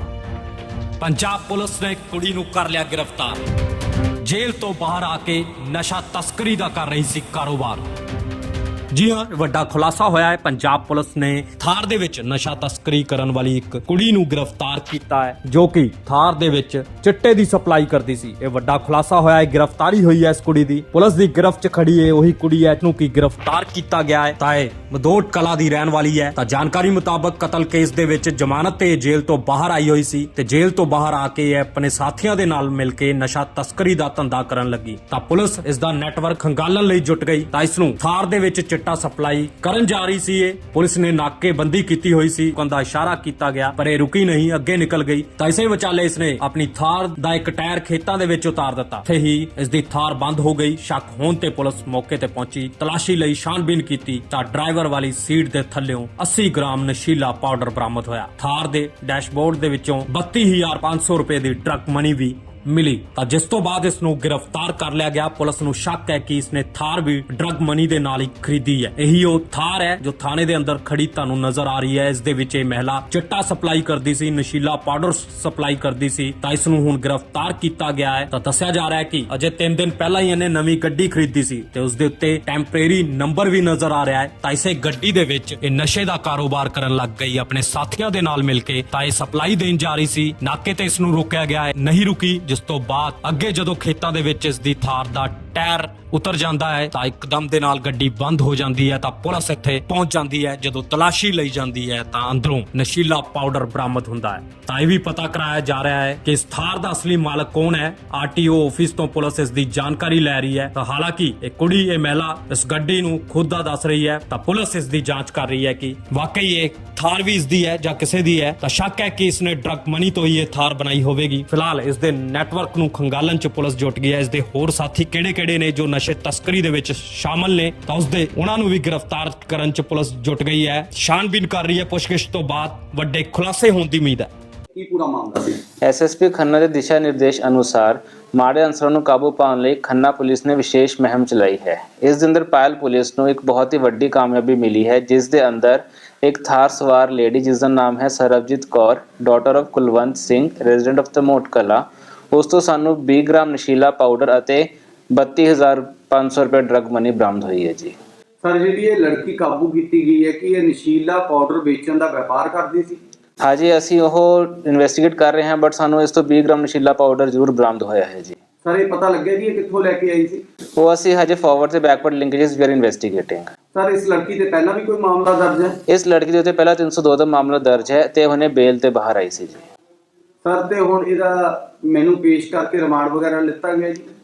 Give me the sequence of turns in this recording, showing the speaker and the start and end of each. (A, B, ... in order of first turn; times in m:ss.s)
0:01.0-0:03.4 A
0:04.2-0:07.8 A
0:08.9-2:14.3 A
2:14.7-2:15.6 B
2:15.8-2:37.9 C
2:38.4-2:43.0 B
2:43.4-2:48.4 C
2:48.6-2:50.4 B
2:50.8-2:53.5 C
2:53.7-2:55.8 B
2:55.9-2:59.6 C
3:00.4-3:04.0 B